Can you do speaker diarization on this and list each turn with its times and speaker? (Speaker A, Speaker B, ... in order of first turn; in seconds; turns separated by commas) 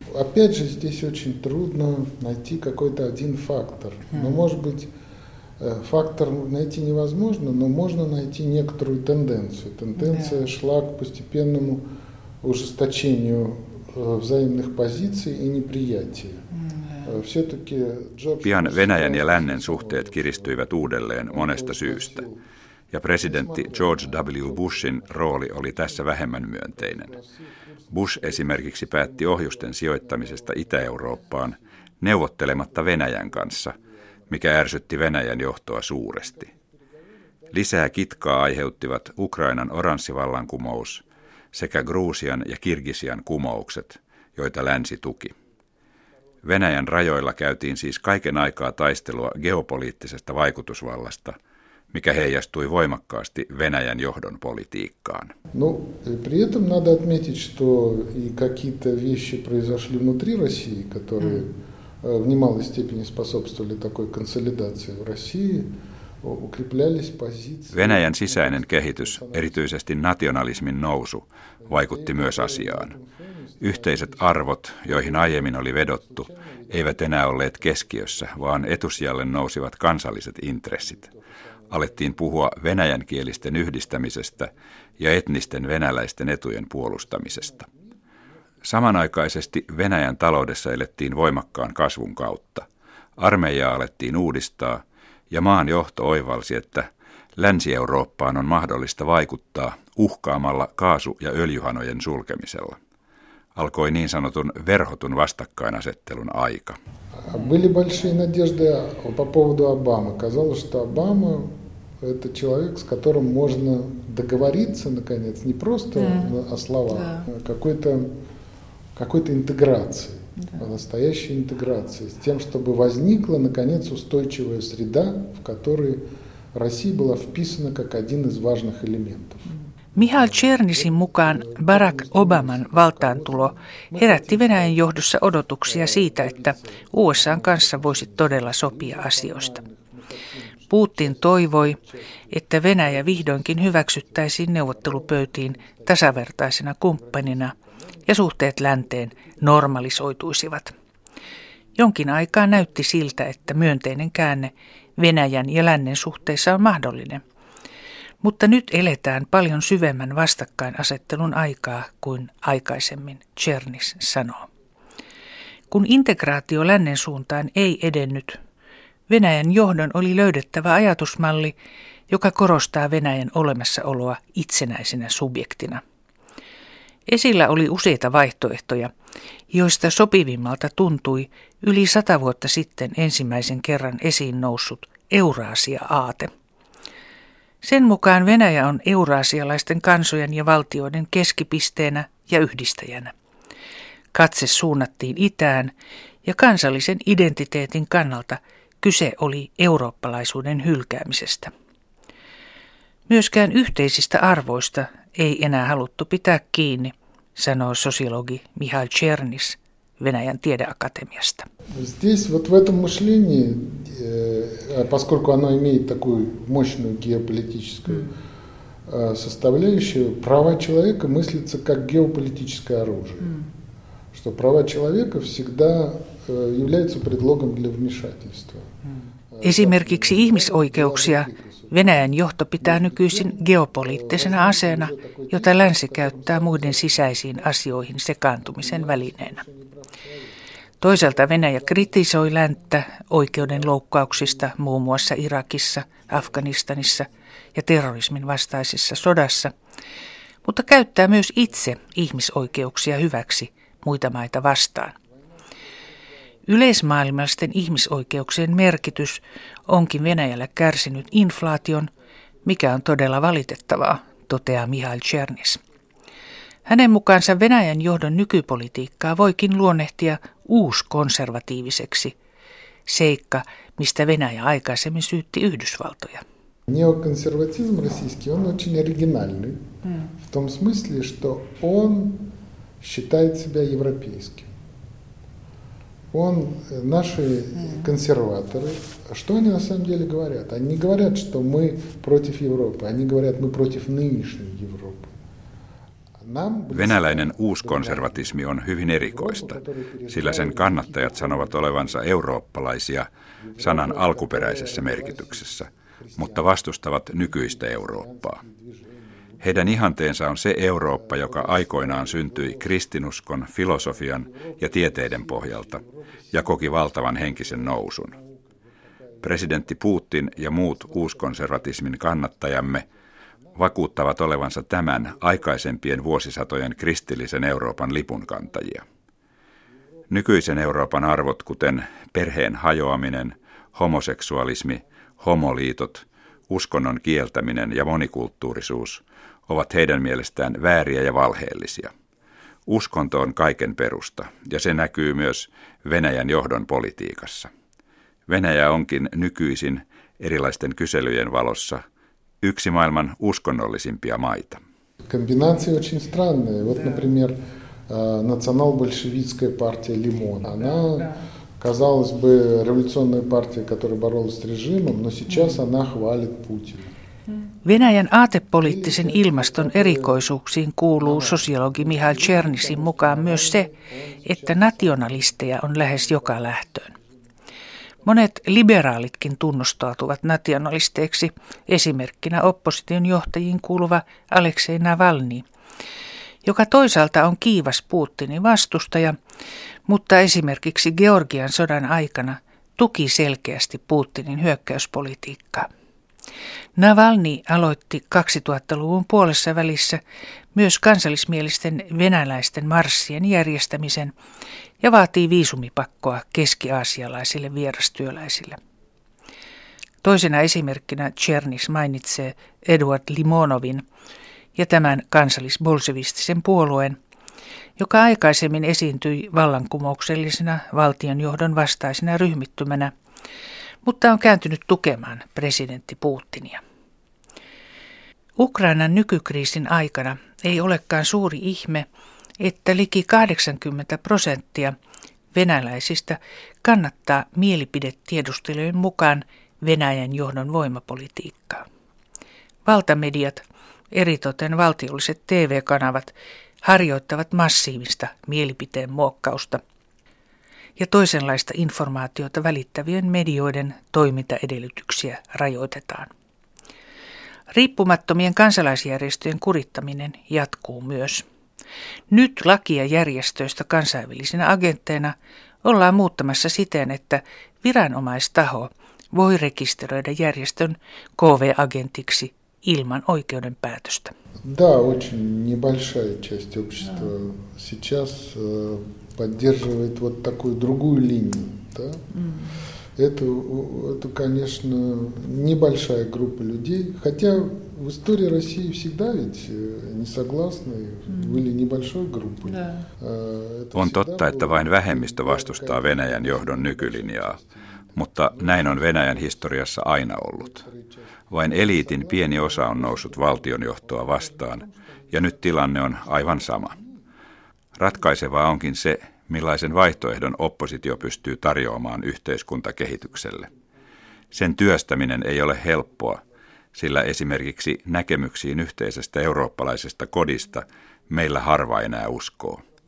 Speaker A: 0.1-4.9, Speaker A: 5.6-11.8, Speaker A: 12.4-16.4, Speaker A: 17.0-22.4, Speaker B: 18.4-22.2, Speaker B: 22.9-27.1, Speaker A: 23.2-31.6, Speaker B: 27.9-33.8, Speaker A: 32.9-34.4, Speaker B: 34.3-36.5, Speaker B: 37.5-45.3, Speaker B: 46.4-51.4, Speaker B: 51.9-55.3, Speaker A: 55.5-69.7, Speaker B: 67.7-72.9, Speaker A: 71.6-78.9, Speaker B: 73.6-81.1, Speaker A: 80.9-81.2, Speaker A: 81.7-82.3, Speaker B: 81.7-87.7, Speaker A: 83.5-83.7, Speaker A: 87.2-87.8, Speaker B: 88.6-92.7, Speaker B: 93.2-102.8, Speaker B: 103.5-106.8, Speaker A: 107.2-118.1, Speaker A: 118.9-134.8, Speaker C: 129.9-139.6, Speaker A: 135.7-146.3, Speaker C: 140.7-141.8, Speaker C: 142.3-147.5, Speaker A: 146.9-147.8, Speaker C: 148.1-150.7, Speaker C: 151.8-157.2, Speaker C: 158.2-164.5, Speaker C: 165.7-168.4, Speaker C: 169.1-171.5, Speaker C: 172.1-175.8, Speaker C: 177.1-178.9, Speaker C: 179.5-186.3, Speaker C: 187.6-193.1, Speaker C: 194.1-195.7, Speaker C: 196.2-201.5, Speaker C: 203.1-211.5, Speaker A: 211.7-218.1, Speaker A: 218.9-223.4, Speaker A: 224.1-228.7, Speaker A: 229.3-231.8, Speaker C: 229.4-239.4, Speaker A: 232.6-237.5, Speaker A: 238.4-242.0, Speaker C: 240.8-249.5, Speaker C: 250.4-254.9, Speaker C: 256.4-261.9, Speaker C: 262.4-265.6, Speaker C: 266.7-272.1, Speaker C: 272.9-276.2, Speaker A: 276.7-282.3, Speaker A: 282.8-284.5, Speaker A: 286.1-295.1, Speaker A: 296.2-298.3, Speaker B: 296.7-308.4, Speaker A: 298.9-302.0, Speaker A: 303.4-306.5, Speaker A: 307.2-309.7, Speaker B: 309.4-318.1, Speaker A: 311.0-312.8, Speaker A: 314.2-319.7, Speaker B: 319.2-322.8, Speaker A: 320.3-322.9, Speaker B: 323.5-328.8, Speaker B: 330.1-341.9, Speaker B: 342.7-347.5, Speaker B: 348.3-351.8, Speaker B: 352.4-354.6, Speaker A: 355.0-357.3, Speaker A: 357.9-366.9, Speaker C: 367.6-373.7, Speaker A: 368.6-370.2, Speaker A: 371.0-375.7, Speaker C: 374.2-376.9, Speaker C: 378.0-385.4, Speaker C: 386.4-389.2, Speaker C: 389.9-395.7, Speaker C: 396.8-400.0, Speaker C: 400.5-404.1, Speaker C: 404.8-408.6, Speaker C: 410.0-413.8, Speaker C: 414.6-417.0, Speaker C: 417.8-422.9, Speaker C: 423.8-426.6, Speaker C: 428.4-431.9, Speaker C: 432.4-434.7, Speaker C: 435.3-441.6, Speaker C: 442.6-449.6, Speaker C: 450.8-456.1, Speaker C: 457.5-461.2, Speaker C: 462.1-474.1, Speaker A: 474.4-482.0, Speaker A: 482.9-497.6, Speaker B: 493.7-497.4, Speaker B: 497.9-500.6, Speaker A: 498.3-504.7, Speaker B: 501.3-506.8, Speaker A: 505.6-507.0, Speaker B: 507.8-513.5, Speaker B: 514.3-522.6